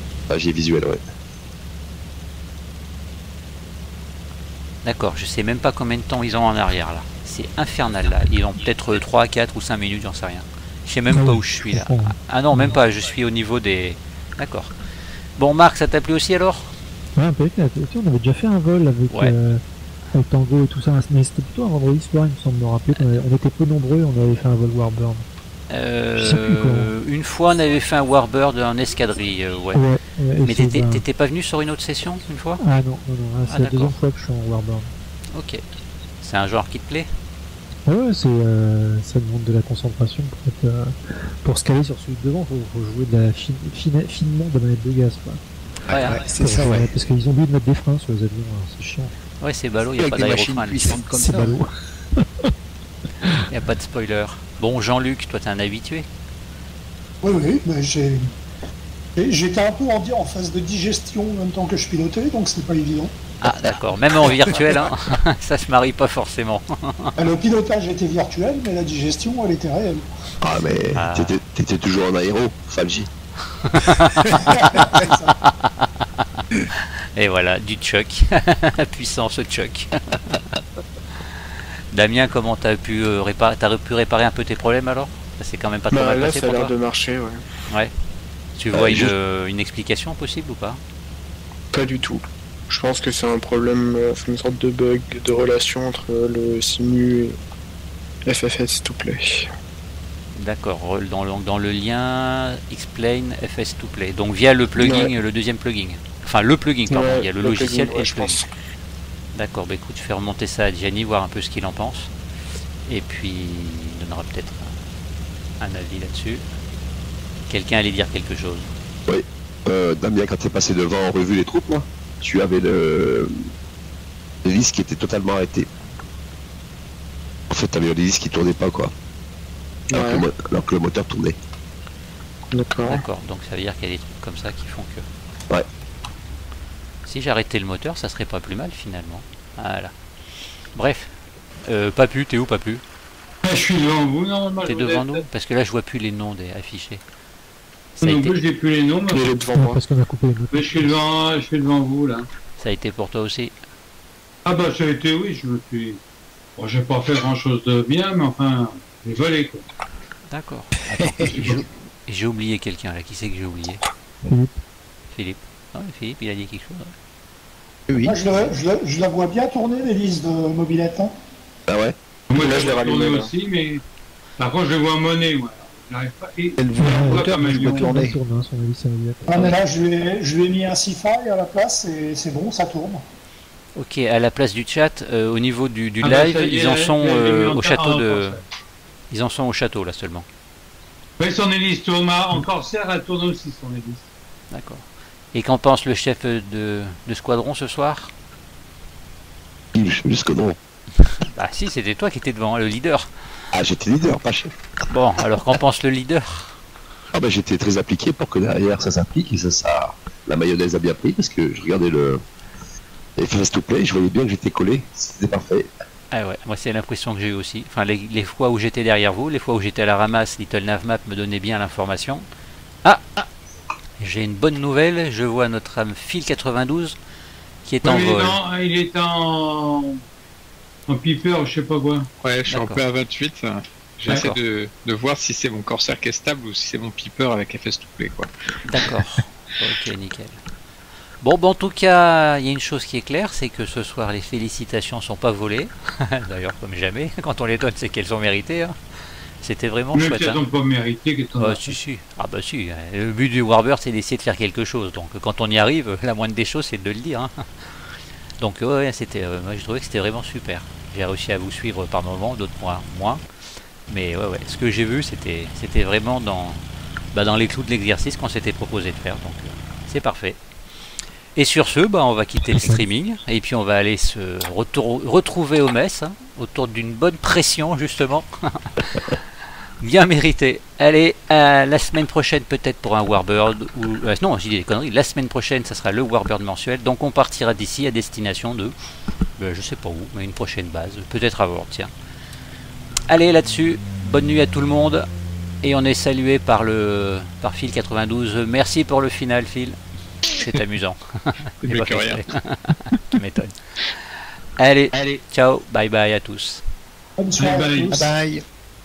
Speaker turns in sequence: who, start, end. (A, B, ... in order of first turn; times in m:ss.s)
0:00.3-0:01.0 A
0:04.8-0:14.7 B
0:11.1-0:12.8 C
0:15.4-0:16.7 B
0:17.2-0:25.2 C
0:19.1-0:19.3 B
0:25.7-0:29.8 B
0:26.2-0:26.9 C
0:29.7-0:31.0 C
0:30.4-0:32.6 B
0:32.6-0:34.9 C
0:33.4-0:34.0 B
0:35.3-0:35.6 B
0:36.2-0:37.1 B
0:37.8-0:45.4 C
0:45.9-0:46.9 D
0:45.9-0:46.2 B
0:46.3-0:49.1 C
0:46.5-0:46.8 E
0:49.4-0:50.9 B
0:50.0-0:51.6 D
0:51.0-0:52.2 C
0:53.5-0:56.0 B
0:57.2-0:58.3 E
0:59.2-1:03.1 E
1:03.4-1:07.2 B
1:07.2-1:10.1 E
1:10.4-1:13.1 A
1:10.9-1:11.4 B
1:13.6-1:14.5 B
1:14.4-1:15.4 E
1:15.4-1:20.4 B
1:21.9-1:26.7 B
1:25.9-1:27.4 F
1:28.6-1:30.8 B
1:28.7-1:29.1 A
1:31.7-1:37.4 F
1:38.2-1:39.5 F
1:40.3-1:48.4 B
1:44.8-1:45.1 F
1:46.9-1:48.5 F
1:49.3-1:52.1 B
1:52.9-1:54.7 B
1:55.6-1:56.4 B
1:57.5-1:58.7 B
1:59.1-2:03.3 A
2:04.4-2:05.7 A
2:07.5-2:08.9 A
2:09.9-2:10.2 F
2:09.9-2:11.4 A
2:12.5-2:13.0 F
2:12.8-2:15.0 B
2:17.0-2:19.9 B
2:20.8-2:21.1 B
2:21.6-2:22.8 B
2:23.4-2:25.2 G
2:24.6-2:27.0 B
2:28.0-2:29.2 G
2:28.0-2:28.4 B
2:29.1-2:29.8 F
2:29.5-2:31.0 C
2:30.5-2:32.3 G
2:32.6-2:33.5 B
2:34.4-2:36.0 G
2:36.6-2:39.6 G
2:40.3-2:43.8 B
2:41.0-2:41.6 D
2:41.2-2:41.6 G
2:44.2-2:44.5 C
2:45.1-2:46.9 B
2:47.9-2:48.2 D
2:48.0-2:51.1 E
2:51.7-2:52.0 A
2:52.3-2:53.8 G
2:52.3-2:53.3 F
2:54.4-2:58.0 G
2:56.6-2:58.2 D
2:56.7-2:59.5 C
2:59.2-3:03.0 E
3:03.8-3:08.4 B
3:06.0-3:08.4 G
3:09.1-3:10.2 B
3:11.2-3:14.1 G
3:14.5-3:18.1 B
3:19.7-3:20.6 A
3:21.2-3:23.1 B
3:23.5-3:24.5 A
3:24.9-3:26.4 B
3:27.1-3:32.2 A
3:33.2-3:35.7 A
3:36.1-3:42.2 B
3:42.8-3:43.3 B
3:44.0-3:47.0 B
3:47.6-3:48.4 B
3:47.8-3:50.0 G
3:50.9-3:52.1 G
3:52.2-3:58.3 H
3:52.5-3:52.8 B
3:54.1-3:54.4 B
3:58.6-4:00.4 B
4:01.2-4:08.8 B
4:09.4-4:10.4 B
4:09.9-4:11.8 G
4:11.4-4:17.4 B
4:18.4-4:23.2 B
4:23.9-4:26.6 B
4:27.1-4:30.4 B
4:31.4-4:39.2 B
4:32.5-4:32.8 C
4:39.8-4:48.7 B
4:49.4-4:51.9 B
4:53.1-4:55.1 B
4:55.6-5:03.9 B
5:01.6-5:02.3 H
5:04.6-5:06.6 B
5:07.2-5:08.1 E
5:07.4-5:07.9 G
5:07.9-5:08.4 D